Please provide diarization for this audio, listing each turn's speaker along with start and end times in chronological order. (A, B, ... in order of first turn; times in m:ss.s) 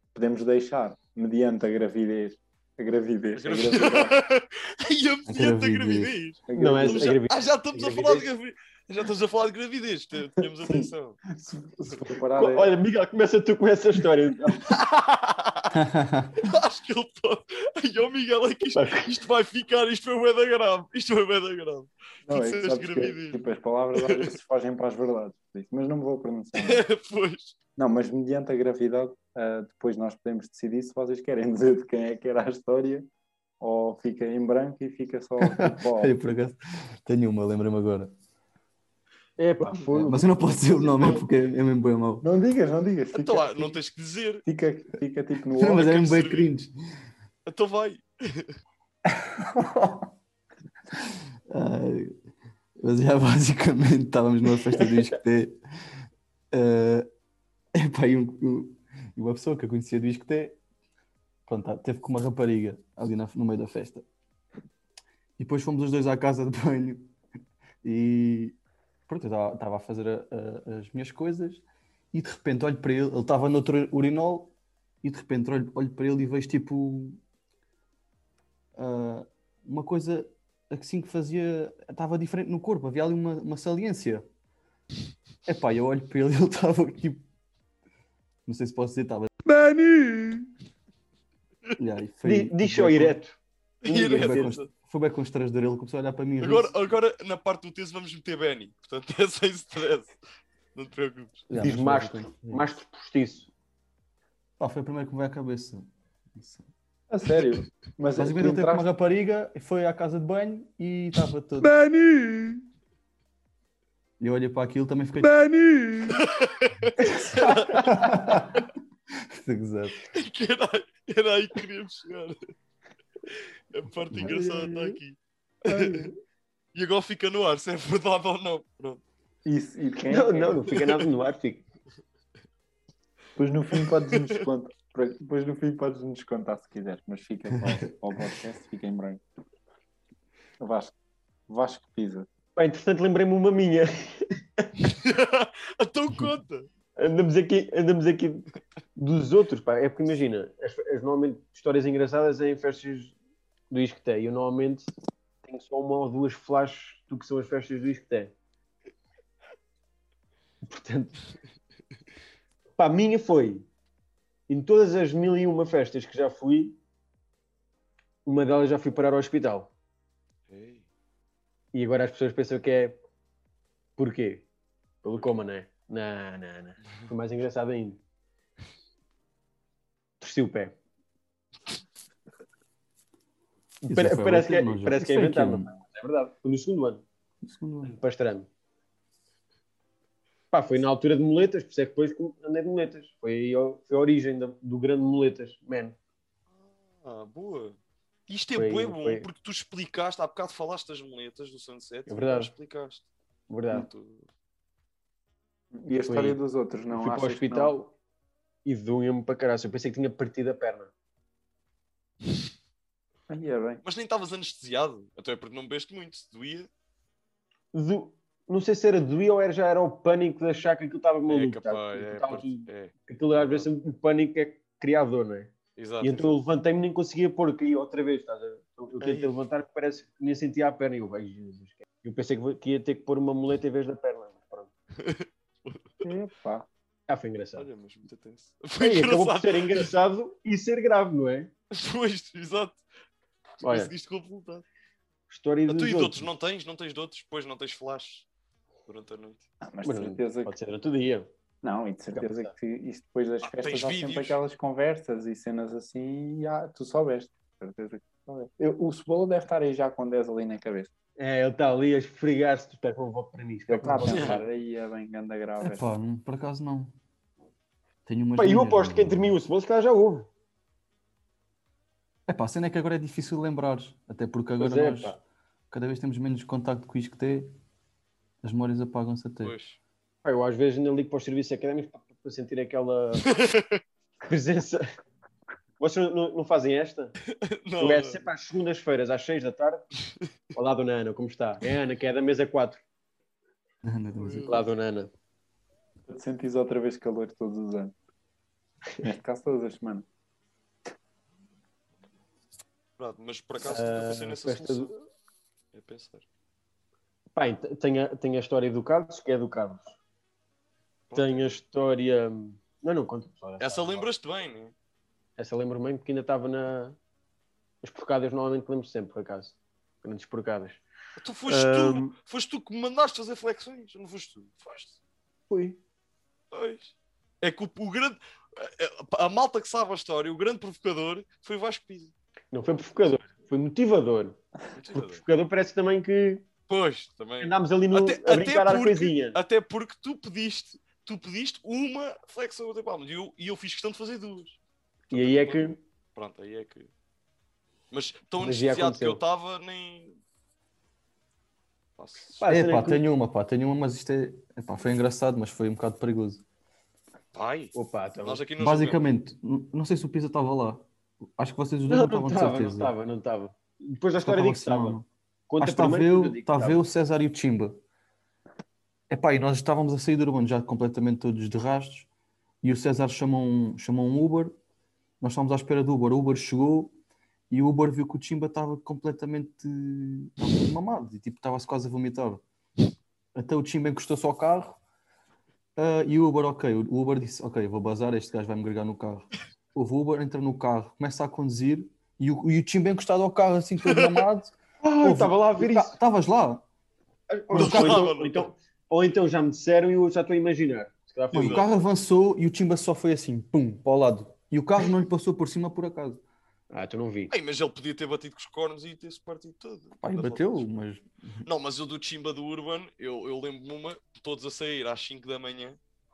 0:00.1-0:04.2 A
0:03.3-0:11.2 B
0:05.3-0:06.1 C
0:06.5-0:07.1 A
0:06.5-0:08.3 D
0:10.6-0:12.7 A
0:12.3-0:14.6 D
0:14.6-0:15.8 B
0:15.7-0:16.4 C
0:16.4-0:24.3 B
0:18.7-0:19.1 D
0:22.3-0:26.8 A
0:26.6-0:27.5 B
0:27.8-0:33.1 A
0:33.6-0:36.1 A
0:35.4-0:38.1 C
0:39.4-0:41.2 D
0:39.9-0:42.2 C
0:42.2-0:43.8 A
0:43.1-0:44.4 B
0:44.4-0:45.8 A
0:45.6-0:46.7 C
0:45.7-0:46.5 B
0:47.4-0:48.5 B
0:51.5-0:52.2 C
0:52.8-0:55.6 C
0:56.5-0:57.1 C
0:57.7-1:00.6 C
1:01.5-1:04.0 C
1:05.4-1:07.1 C
1:07.8-1:08.6 C
1:09.1-1:17.2 C
1:18.8-1:24.2 C
1:25.5-1:27.2 C
1:28.4-1:29.3 C
1:29.4-1:30.5 E
1:31.8-1:33.2 C
1:32.2-1:34.6 D
1:33.8-1:34.7 B
1:34.1-1:36.7 C
1:36.4-1:40.1 B
1:40.7-1:41.5 B
1:41.5-1:42.7 C
1:41.5-1:43.5 D
1:44.6-1:46.7 C
1:47.1-1:48.8 A
1:48.2-1:51.8 C
1:51.6-1:52.6 E
1:54.2-1:55.4 C
1:55.2-1:56.2 E
1:56.0-1:57.9 B
1:57.7-2:00.0 C
2:00.1-2:02.4 B
2:03.7-2:06.1 B
2:04.2-2:05.0 A
2:05.7-2:06.1 A
2:06.7-2:09.0 B
2:09.4-2:10.7 A
2:10.1-2:11.6 D
2:13.4-2:19.2 A
2:20.6-2:20.9 A
2:21.5-2:22.3 A
2:22.6-2:24.7 D
2:25.0-2:26.7 B
2:27.0-2:33.1 D
2:33.7-2:34.9 D
2:35.4-2:38.3 D
2:40.6-2:41.1 D
2:42.8-2:43.7 D
2:44.5-2:46.8 D
2:48.2-2:49.7 D
2:50.5-2:50.8 B
2:51.7-2:53.0 D
2:54.0-2:54.5 D
2:55.0-2:58.0 D
3:00.2-3:00.8 D
3:03.8-3:07.0 D
3:03.9-3:05.7 C
3:07.4-3:07.9 C
3:07.8-3:08.5 D
3:10.5-3:16.0 D
3:16.6-3:23.0 B
3:18.5-3:19.3 D
3:22.1-3:22.5 D
3:23.5-3:23.9 D
3:23.7-3:24.3 B
3:25.7-3:27.7 A
3:26.0-3:26.4 D
3:26.9-3:27.9 D
3:28.6-3:30.9 D
3:33.3-3:33.8 A
3:33.8-3:36.7 B
3:37.7-3:54.7 D
3:41.3-3:43.7 B
3:45.8-3:46.4 B
3:49.0-3:49.4 B
3:55.0-3:56.1 B
3:56.0-3:56.6 A
3:57.1-3:57.7 D
3:57.6-3:59.9 B
3:58.8-4:01.5 D
4:01.7-4:02.8 B
4:03.6-4:04.6 B
4:03.6-4:03.9 D
4:05.3-4:06.2 D
4:05.7-4:08.2 B
4:08.9-4:09.4 B
4:09.6-4:10.5 A
4:09.8-4:11.3 D
4:11.6-4:20.9 A
4:12.1-4:12.5 D
4:13.4-4:14.4 B
4:21.2-4:24.4 D
4:23.7-4:25.9 A
4:24.1-4:24.4 B
4:25.6-4:26.9 C
4:28.0-4:29.4 C
4:28.4-4:30.3 D
4:32.3-4:35.2 C
4:34.6-4:35.2 D
4:35.7-4:37.5 C
4:38.4-4:39.5 C
4:39.4-4:39.8 B
4:40.2-4:43.3 D
4:43.2-4:43.8 B
4:44.2-4:44.8 D
4:45.8-4:47.1 D
4:47.4-4:48.2 B
4:47.8-4:49.9 D
4:50.5-4:52.8 D
4:53.8-4:54.6 C
4:54.2-4:54.6 B
4:54.4-4:55.1 D
4:56.1-4:57.9 A
4:59.0-5:00.0 A
5:03.0-5:04.9 B
5:03.6-5:05.0 D
5:05.7-5:06.2 B
5:07.4-5:10.0 D
5:11.1-5:11.6 B
5:11.1-5:14.1 D
5:13.6-5:14.7 B
5:15.4-5:17.0 D
5:17.8-5:20.8 D
5:21.2-5:25.0 B
5:21.5-5:22.1 D
5:25.5-5:25.8 D
5:26.5-5:32.1 B
5:32.5-5:34.4 D
5:34.7-5:35.2 B
5:34.9-5:36.5 D
5:36.7-5:44.6 B
5:37.4-5:39.4 D
5:45.1-5:46.9 B
5:45.1-5:45.8 D
5:47.9-5:50.2 B
5:48.4-5:49.2 D
5:52.0-5:52.4 B
5:52.4-5:53.0 D
5:52.5-5:56.4 C
5:57.3-5:59.0 B
5:57.7-5:58.4 D
5:58.6-6:00.8 C
6:01.4-6:02.9 C
6:01.9-6:06.8 D
6:04.2-6:05.1 C
6:05.6-6:07.8 C
6:09.1-6:12.1 C
6:12.6-6:14.5 C
6:15.2-6:16.9 C
6:17.5-6:22.4 C
6:23.3-6:24.8 C
6:25.8-6:36.6 C
6:33.8-6:34.2 B
6:34.8-6:36.0 D
6:37.3-6:41.6 D
6:37.5-6:38.0 C
6:37.5-6:38.5 B
6:41.3-6:41.7 B
6:41.3-6:46.2 C
6:46.7-6:47.3 D
6:47.3-6:50.6 B
6:50.0-6:51.4 C
6:51.4-6:55.8 B